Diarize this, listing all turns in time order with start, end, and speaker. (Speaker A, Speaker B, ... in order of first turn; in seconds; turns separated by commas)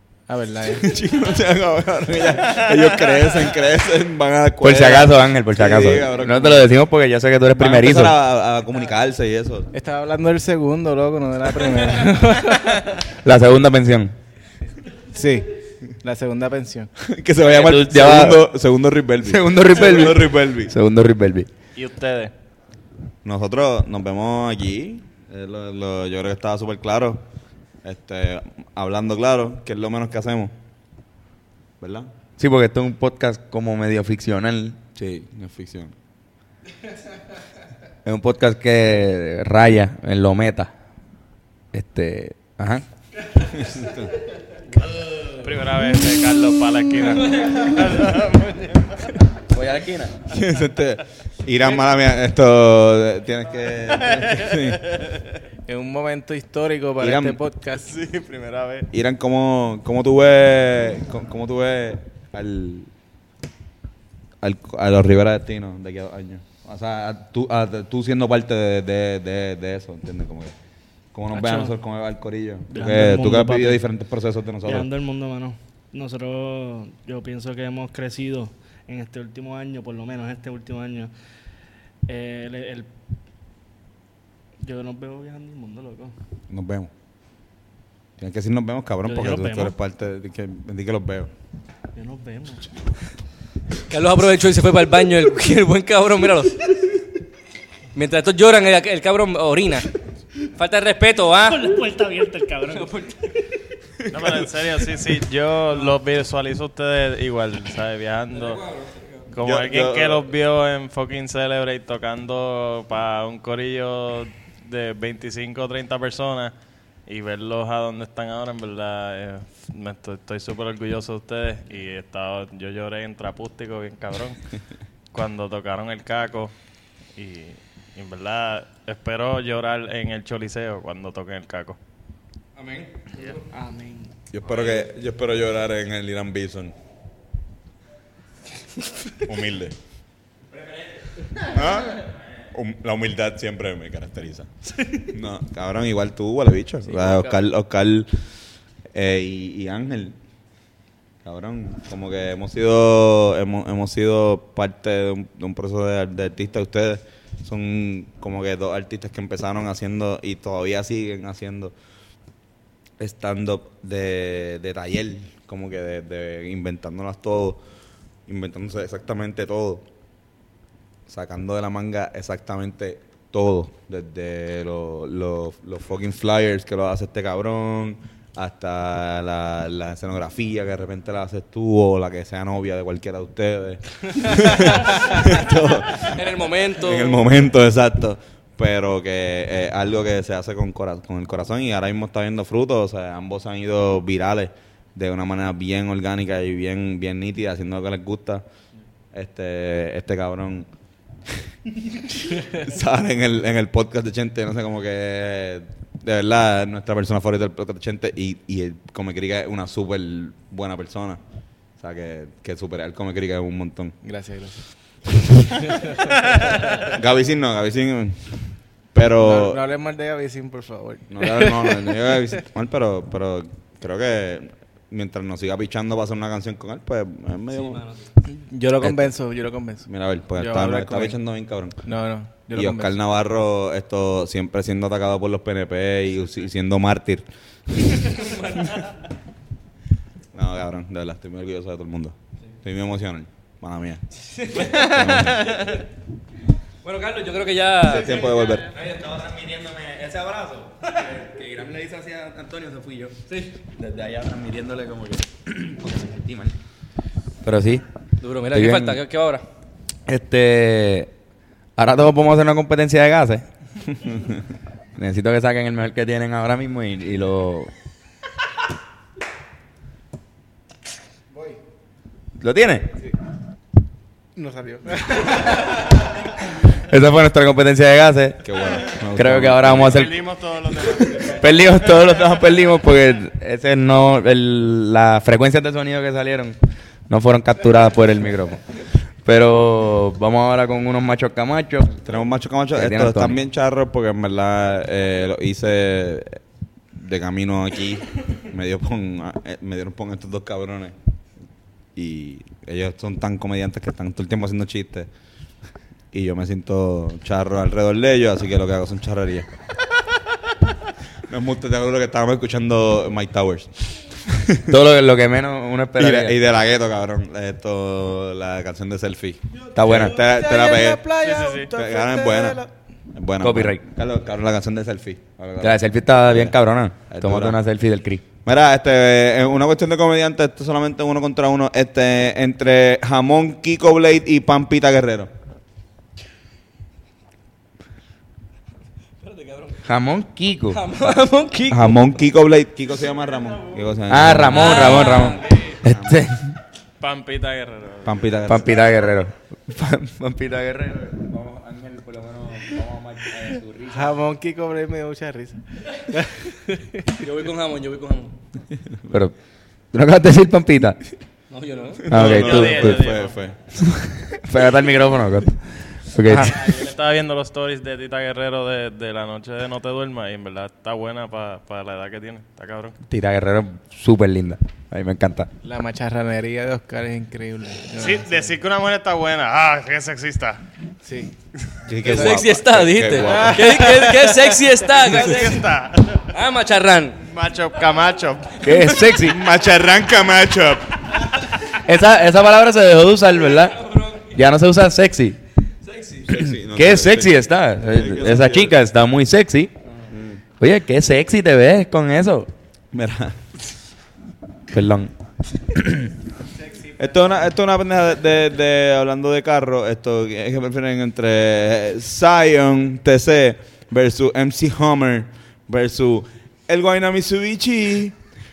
Speaker A: 0.3-0.9, Speaker B: 0.7-6.7, Speaker C: 4.6-8.2, Speaker B: 7.5-9.7, Speaker A: 9.7-12.9, Speaker C: 13.2-14.1, Speaker A: 15.1-15.5, Speaker A: 16.0-16.9, Speaker B: 17.0-20.7, Speaker C: 17.4-18.5, Speaker C: 19.2-21.5, Speaker D: 21.7-22.3, Speaker B: 23.2-27.2, Speaker B: 27.8-30.5, Speaker B: 31.8-32.1, Speaker C: 32.4-34.8, Speaker B: 35.0-35.9, Speaker C: 38.0-40.7, Speaker C: 41.7-42.8, Speaker B: 43.4-44.1, Speaker D: 45.3-49.1, Speaker C: 49.5-50.2, Speaker B: 50.3-54.8, Speaker D: 54.2-55.2, Speaker A: 55.7-57.9, Speaker B: 57.0-57.4, Speaker D: 57.8-58.9, Speaker B: 58.9-62.9, Speaker B: 64.4-70.5, Speaker B: 71.1-74.9, Speaker E: 71.3-71.7, Speaker E: 72.7-73.8, Speaker E: 74.6-81.1, Speaker E: 82.1-82.9, Speaker E: 84.6-86.2, Speaker B: 86.5-86.9, Speaker B: 88.2-91.3, Speaker E: 89.0-89.8, Speaker E: 91.9-92.7, Speaker F: 93.9-96.7, Speaker F: 97.9-99.9, Speaker F: 100.5-101.7, Speaker E: 101.5-103.1, Speaker F: 102.7-103.1, Speaker D: 104.1-108.6, Speaker F: 108.4-109.1, Speaker D: 109.3-116.5, Speaker B: 109.4-110.3, Speaker D: 117.0-124.4, Speaker D: 125.1-126.5, Speaker D: 127.1-131.8, Speaker F: 132.6-133.3, Speaker E: 133.3-134.1, Speaker B: 134.3-136.7, Speaker B: 139.2-139.8, Speaker B: 141.4-144.5, Speaker B: 145.0-148.1, Speaker F: 146.8-147.4, Speaker B: 148.9-150.2, Speaker B: 151.2-161.7, Speaker B: 163.0-167.6, Speaker B: 168.3-169.8, Speaker B: 171.1-198.4, Speaker F: 185.9-187.3, Speaker B: 199.1-200.7, Speaker B: 202.2-211.2, Speaker B: 211.8-213.9, Speaker A: 214.0-214.6, Speaker B: 216.7-219.6, Speaker A: 219.2-221.9, Speaker B: 221.1-227.8, Speaker F: 227.5-227.9, Speaker A: 228.2-231.2, Speaker B: 229.9-231.8, Speaker A: 231.8-232.9, Speaker B: 232.5-237.2, Speaker F: 238.2-238.8, Speaker B: 240.3-244.0, Speaker F: 244.4-244.8, Speaker B: 244.5-245.8, Speaker F: 246.8-248.2, Speaker B: 247.8-248.7, Speaker C: 248.7-256.6, Speaker C: 257.4-257.8, Speaker F: 258.2-259.4, Speaker C: 258.5-259.0, Speaker C: 260.1-261.1, Speaker C: 261.8-263.4, Speaker C: 264.9-267.7, Speaker C: 272.4-272.9, Speaker A: 274.4-275.8, Speaker C: 276.8-278.6, Speaker B: 278.4-280.1, Speaker C: 279.1-280.2, Speaker D: 279.7-281.5, Speaker C: 281.2-286.6, Speaker C: 287.1-288.6, Speaker C: 289.2-292.1, Speaker B: 292.0-296.4, Speaker C: 292.7-293.4, Speaker B: 296.9-300.9, Speaker B: 301.9-305.1, Speaker B: 306.1-309.5, Speaker B: 311.3-314.7, Speaker C: 314.7-316.4, Speaker B: 316.0-321.1, Speaker C: 319.7-320.2, Speaker A: 320.1-322.7, Speaker D: 321.2-321.7, Speaker B: 321.7-322.6, Speaker B: 323.1-326.6, Speaker C: 323.4-323.8, Speaker C: 325.6-328.2, Speaker B: 327.1-327.6, Speaker B: 328.4-335.3, Speaker F: 339.2-339.8, Speaker C: 339.8-340.8, Speaker F: 340.7-342.0, Speaker B: 341.7-346.3, Speaker C: 344.1-346.5, Speaker F: 344.5-345.8, Speaker D: 347.0-348.2, Speaker B: 348.0-348.7, Speaker C: 348.4-354.2, Speaker A: 353.9-356.9, Speaker F: 357.2-358.3, Speaker C: 359.9-361.0, Speaker F: 361.5-362.1, Speaker C: 362.1-363.1, Speaker B: 362.1-363.7, Speaker D: 362.2-363.4, Speaker C: 363.8-366.6, Speaker D: 366.4-373.0, Speaker C: 373.1-375.5, Speaker A: 375.6-378.6, Speaker D: 378.0-380.6, Speaker A: 381.0-381.3, Speaker B: 381.9-383.9, Speaker F: 382.0-385.7, Speaker A: 383.3-384.5, Speaker D: 385.0-386.3, Speaker F: 386.3-387.2, Speaker D: 387.2-389.1, Speaker C: 388.6-389.4, Speaker B: 389.1-391.3, Speaker C: 391.7-395.4, Speaker F: 393.8-394.3, Speaker F: 395.9-396.2, Speaker B: 396.2-398.7, Speaker C: 396.3-399.7, Speaker B: 400.1-400.4, Speaker C: 400.6-402.5, Speaker B: 402.9-403.4, Speaker C: 404.7-405.1, Speaker A: 406.7-407.0, Speaker B: 407.0-418.1